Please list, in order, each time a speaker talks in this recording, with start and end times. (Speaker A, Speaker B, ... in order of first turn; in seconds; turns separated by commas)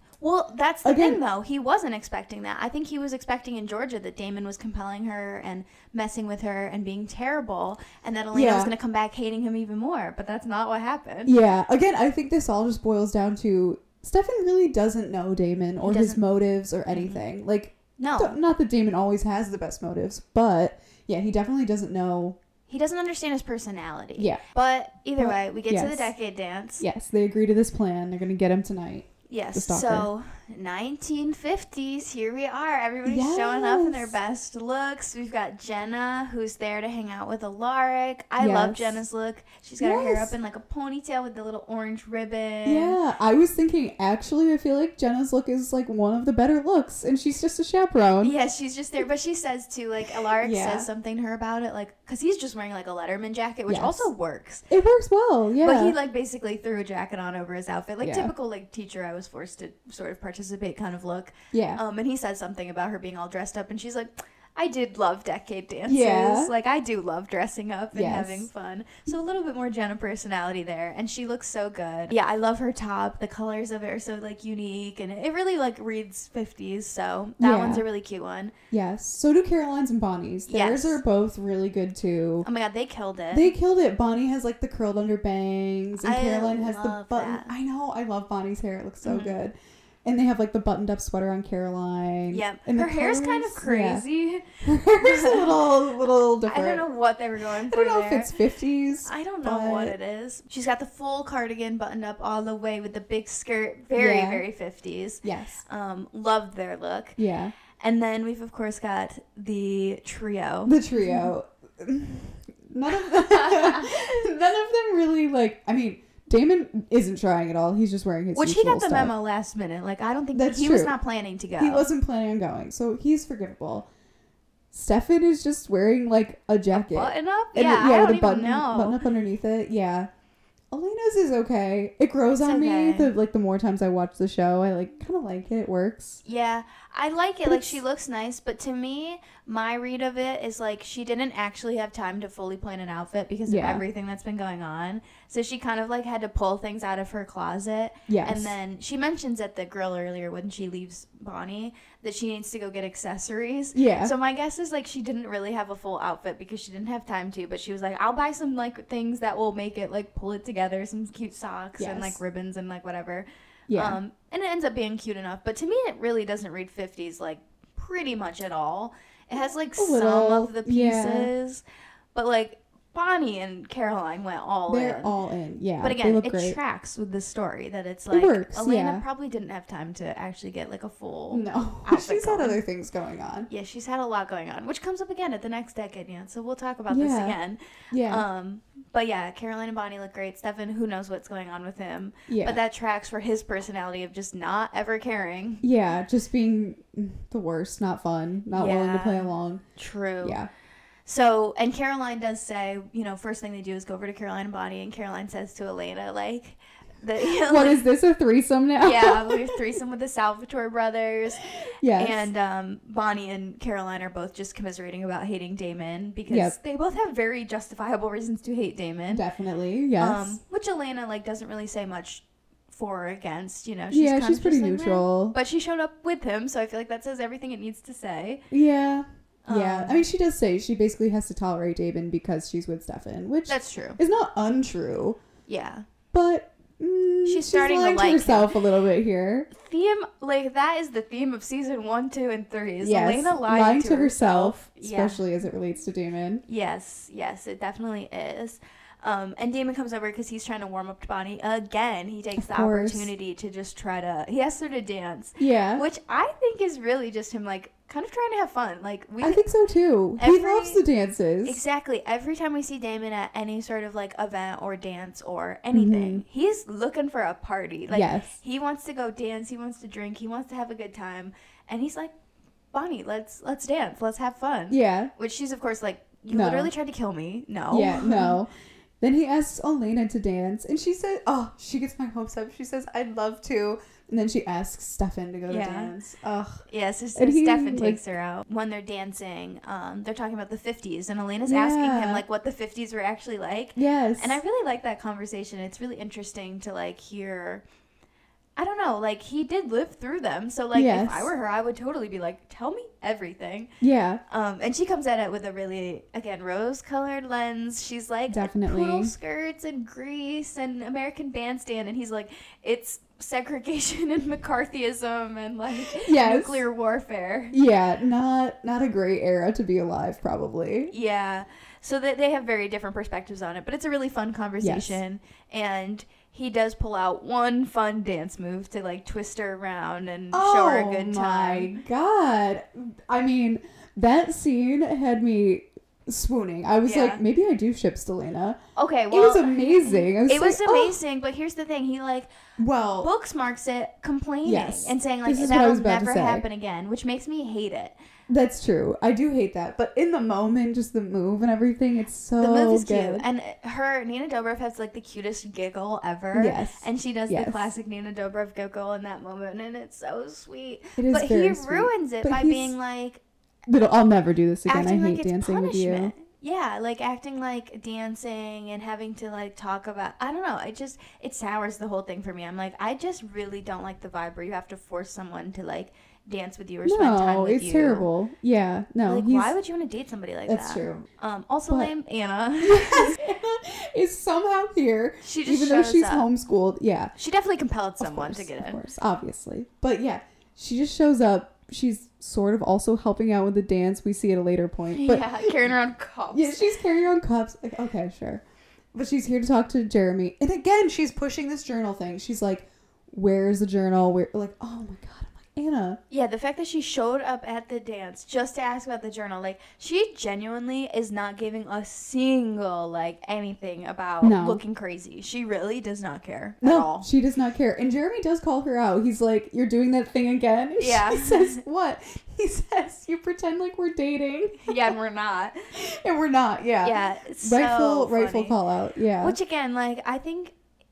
Speaker A: 0.2-11.3, Speaker B: 0.8-1.2, Speaker B: 8.3-8.7, Speaker B: 11.3-22.4, Speaker A: 15.8-16.2, Speaker A: 16.9-17.2, Speaker A: 18.0-18.4, Speaker A: 22.7-26.8, Speaker B: 24.2-24.4, Speaker B: 25.2-26.1, Speaker B: 26.8-30.1, Speaker A: 29.3-43.0, Speaker B: 33.0-34.1, Speaker B: 38.4-39.0, Speaker B: 39.8-40.3, Speaker B: 42.6-48.3, Speaker A: 48.2-54.6, Speaker B: 50.4-50.9, Speaker B: 53.7-54.1, Speaker B: 54.7-56.0, Speaker A: 55.6-78.5, Speaker B: 58.0-58.3, Speaker B: 61.5-61.8, Speaker B: 65.9-66.5, Speaker B: 67.9-68.5, Speaker B: 77.4-77.8, Speaker B: 78.7-82.5, Speaker A: 80.5-81.0, Speaker A: 82.4-83.5, Speaker B: 83.3-94.0, Speaker A: 86.0-87.5, Speaker A: 89.0-89.4, Speaker A: 92.3-95.6, Speaker B: 94.6-96.8, Speaker A: 96.5-98.3, Speaker B: 97.6-99.9, Speaker A: 99.0-107.2, Speaker B: 103.9-104.4, Speaker B: 105.2-105.6, Speaker B: 107.2-107.5, Speaker A: 107.8-111.3, Speaker B: 110.7-119.1, Speaker A: 113.1-114.2, Speaker A: 118.3-121.9, Speaker B: 120.3-120.9, Speaker B: 121.6-123.9, Speaker B: 124.7-130.1, Speaker A: 126.7-129.0, Speaker B: 130.7-136.2, Speaker A: 132.4-133.1, Speaker A: 136.2-171.6, Speaker B: 137.4-137.8, Speaker B: 143.5-143.8, Speaker B: 148.1-148.6, Speaker B: 153.7-154.1, Speaker B: 161.8-162.2, Speaker B: 163.7-164.0, Speaker B: 169.8-171.3, Speaker A: 172.1-175.1, Speaker B: 174.7-176.6, Speaker A: 175.8-182.6, Speaker B: 178.1-179.0, Speaker B: 181.3-183.5, Speaker A: 183.5-195.6, Speaker B: 186.9-187.4, Speaker B: 187.9-188.2, Speaker B: 192.3-192.6, Speaker B: 195.6-199.6, Speaker A: 198.5-200.4, Speaker B: 200.2-200.5, Speaker A: 201.1-207.8, Speaker B: 207.2-209.6, Speaker A: 208.8-219.2, Speaker B: 211.8-212.3, Speaker B: 216.3-216.6, Speaker B: 219.1-220.4, Speaker A: 220.0-228.4, Speaker B: 223.9-225.4, Speaker B: 228.5-235.2, Speaker A: 229.4-230.0, Speaker A: 233.5-234.0, Speaker A: 235.5-235.8, Speaker B: 236.1-239.5, Speaker A: 237.2-238.5, Speaker A: 239.5-245.2, Speaker B: 242.8-246.4, Speaker A: 246.5-259.4, Speaker B: 252.4-253.1, Speaker B: 255.4-255.8, Speaker B: 259.2-261.6, Speaker A: 260.2-260.8, Speaker A: 261.4-272.1, Speaker B: 265.7-266.2, Speaker B: 267.9-268.4, Speaker A: 272.7-278.4, Speaker B: 274.7-275.1, Speaker B: 276.3-276.7, Speaker B: 277.7-278.5, Speaker B: 279.0-286.6, Speaker A: 285.5-285.9, Speaker A: 286.7-297.6, Speaker B: 287.1-288.0, Speaker B: 291.5-292.2, Speaker B: 293.8-294.4, Speaker A: 298.6-303.7, Speaker B: 300.7-301.3, Speaker B: 303.8-304.2, Speaker A: 304.3-317.6, Speaker B: 308.3-309.1, Speaker B: 315.8-316.6, Speaker B: 317.5-320.9, Speaker A: 320.9-331.7, Speaker B: 324.6-325.0, Speaker B: 330.3-338.6, Speaker A: 336.9-337.2, Speaker A: 338.8-342.3, Speaker B: 339.1-341.0, Speaker B: 342.6-343.1, Speaker A: 343.0-347.9, Speaker B: 344.4-346.4, Speaker B: 348.3-353.2, Speaker A: 352.4-363.2, Speaker B: 356.3-357.7, Speaker B: 361.0-362.8, Speaker B: 363.7-366.1, Speaker A: 364.6-378.1, Speaker B: 376.9-379.5, Speaker A: 379.1-383.2, Speaker B: 380.5-381.1, Speaker B: 382.6-387.1, Speaker A: 385.2-386.3, Speaker A: 387.1-388.8, Speaker B: 388.0-395.7, Speaker A: 394.9-396.7, Speaker B: 396.3-398.4, Speaker B: 398.9-406.0, Speaker A: 406.1-417.1, Speaker B: 414.2-414.6, Speaker B: 416.6-424.9, Speaker A: 420.8-421.6, Speaker A: 424.6-425.6, Speaker B: 425.7-429.4, Speaker A: 426.8-428.6, Speaker A: 429.2-430.6